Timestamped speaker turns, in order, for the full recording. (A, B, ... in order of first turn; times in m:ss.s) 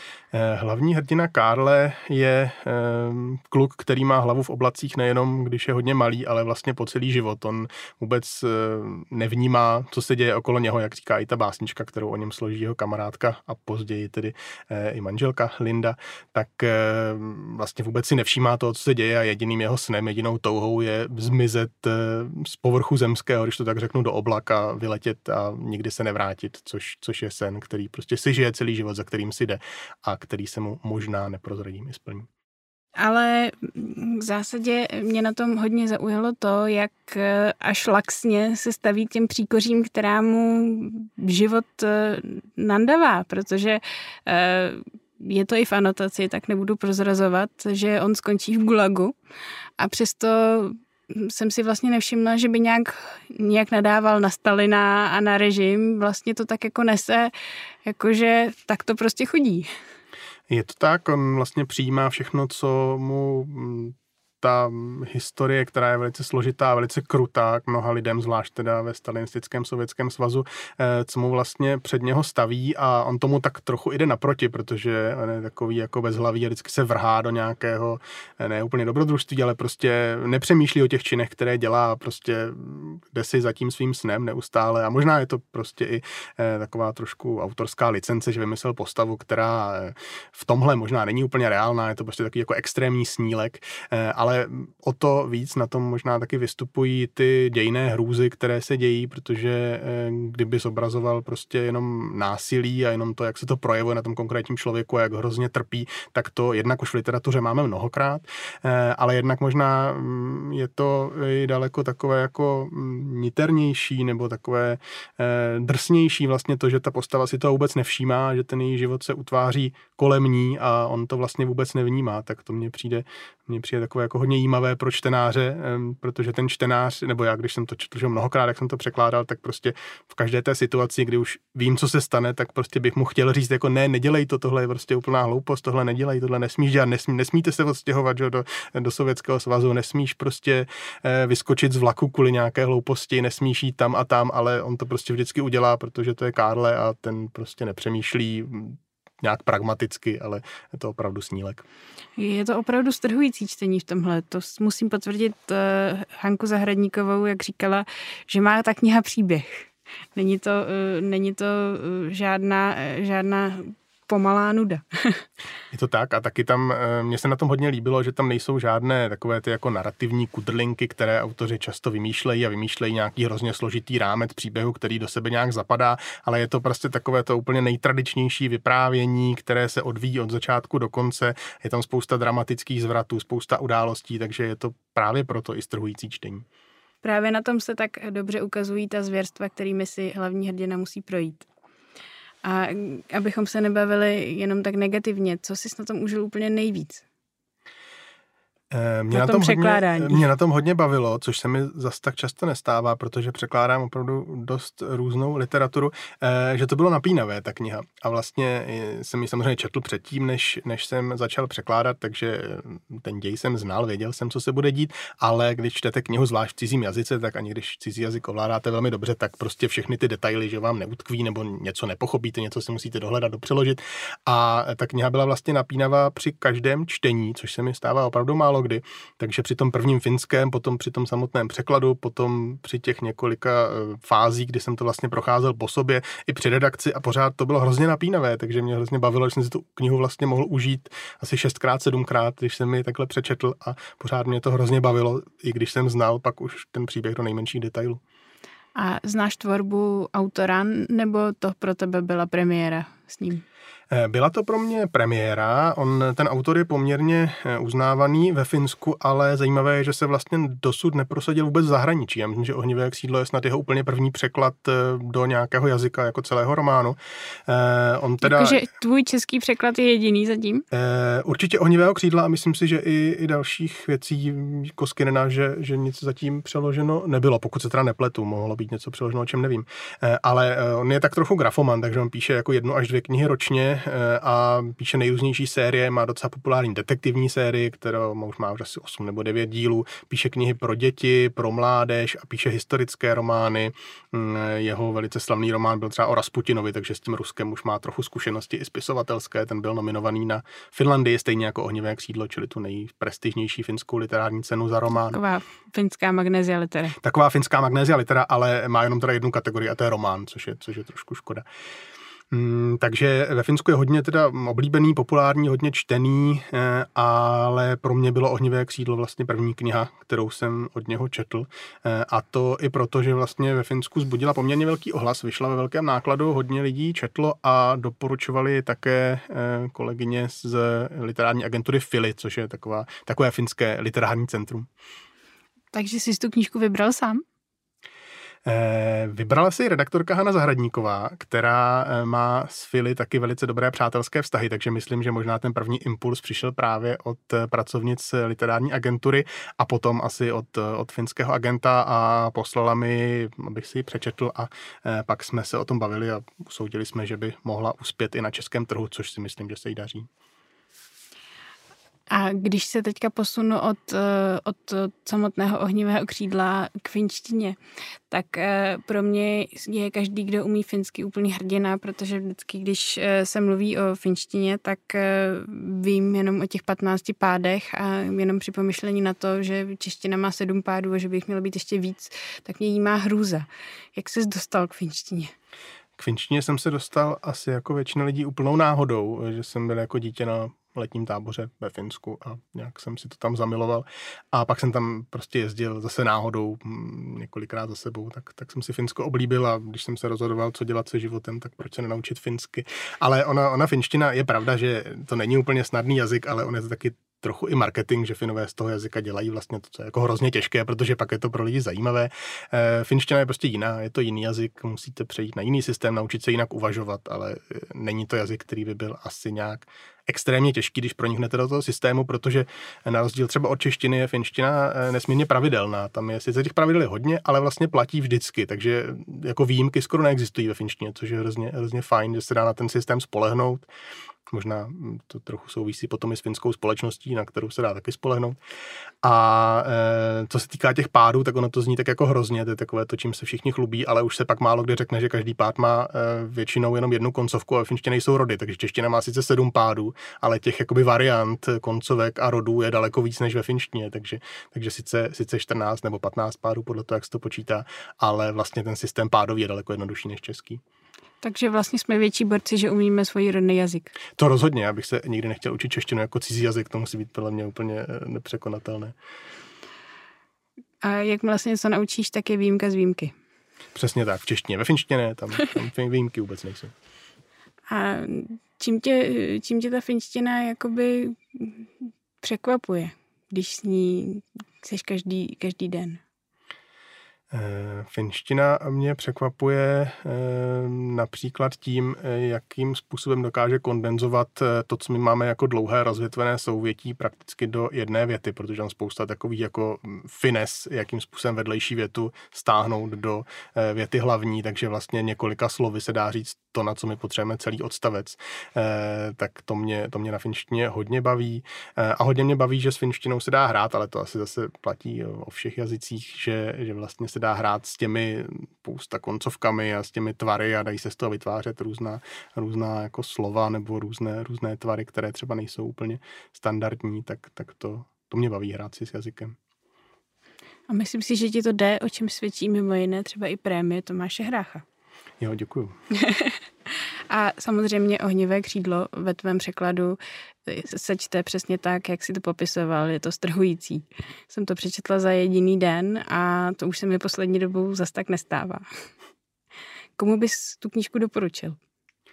0:00.3-0:32.3 A
0:33.0-0:49.1 B
0:49.8-0:57.3 B
0:57.8-0:59.7 B
1:00.5-2:31.6 A
2:32.2-2:45.2 B
2:45.7-3:06.4 A
3:07.0-3:11.5 B
3:12.4-3:17.0 B
3:18.7-4:08.0 A
3:19.1-3:20.3 B
4:08.7-4:13.4 B
4:13.9-4:28.6 A
4:28.2-4:30.6 B
4:30.7-5:05.2 A
5:04.9-5:07.0 B
5:07.0-5:11.4 A
5:12.3-5:34.7 A
5:35.7-5:37.2 B
5:38.4-6:00.1 A
6:02.1-6:07.6 B
6:08.1-6:25.3 B
6:26.0-7:13.6 A
7:14.3-7:18.4 A
7:19.0-7:40.6 A
7:41.2-7:43.9 B
7:44.2-7:48.9 A
7:50.8-7:53.1 B
7:53.7-7:56.7 A
7:57.7-8:06.0 B
8:07.3-8:49.4 A
8:50.7-8:54.6 B
8:55.2-8:55.8 A
8:55.9-9:08.6 B
9:10.0-9:11.6 B